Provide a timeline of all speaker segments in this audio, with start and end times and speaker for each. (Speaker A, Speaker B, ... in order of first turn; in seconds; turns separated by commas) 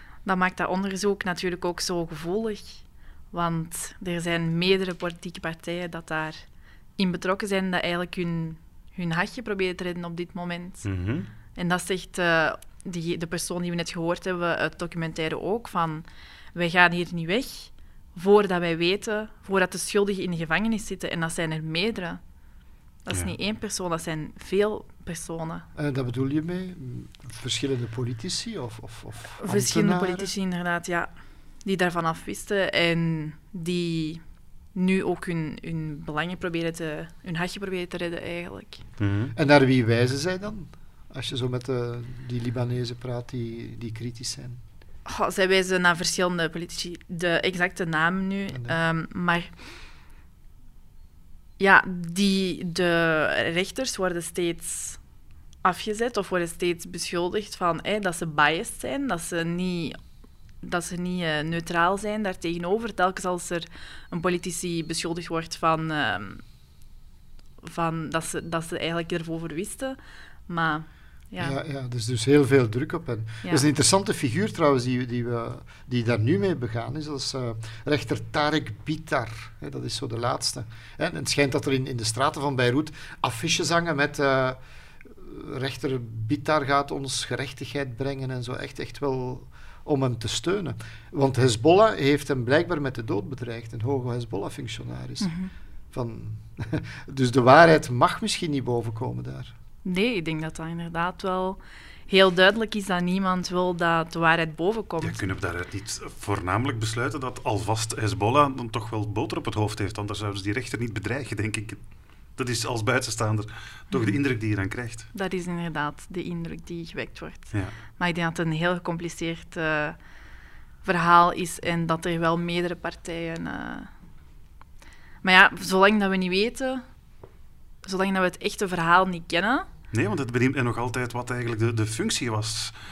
Speaker A: 0.2-6.4, Speaker A: 7.0-10.9, Speaker B: 10.8-11.3, Speaker A: 11.5-22.2, Speaker A: 23.0-25.6, Speaker C: 25.7-30.3, Speaker A: 29.4-31.1, Speaker A: 31.6-34.2, Speaker A: 34.7-38.8, Speaker B: 39.0-39.3, Speaker C: 39.3-44.6, Speaker A: 45.0-49.5, Speaker C: 48.5-48.8, Speaker A: 51.6-55.0, Speaker A: 55.6-60.0, Speaker A: 60.6-66.4, Speaker A: 67.6-71.6, Speaker C: 71.4-95.3, Speaker A: 95.2-95.5, Speaker C: 95.9-99.5, Speaker A: 99.8-105.3, Speaker B: 105.0-111.8, Speaker B: 112.3-115.1, Speaker A: 113.9-114.2, Speaker A: 115.1-120.0, Speaker A: 120.8-123.9, Speaker A: 125.2-126.8, Speaker A: 127.8-129.7, Speaker B: 129.9-132.7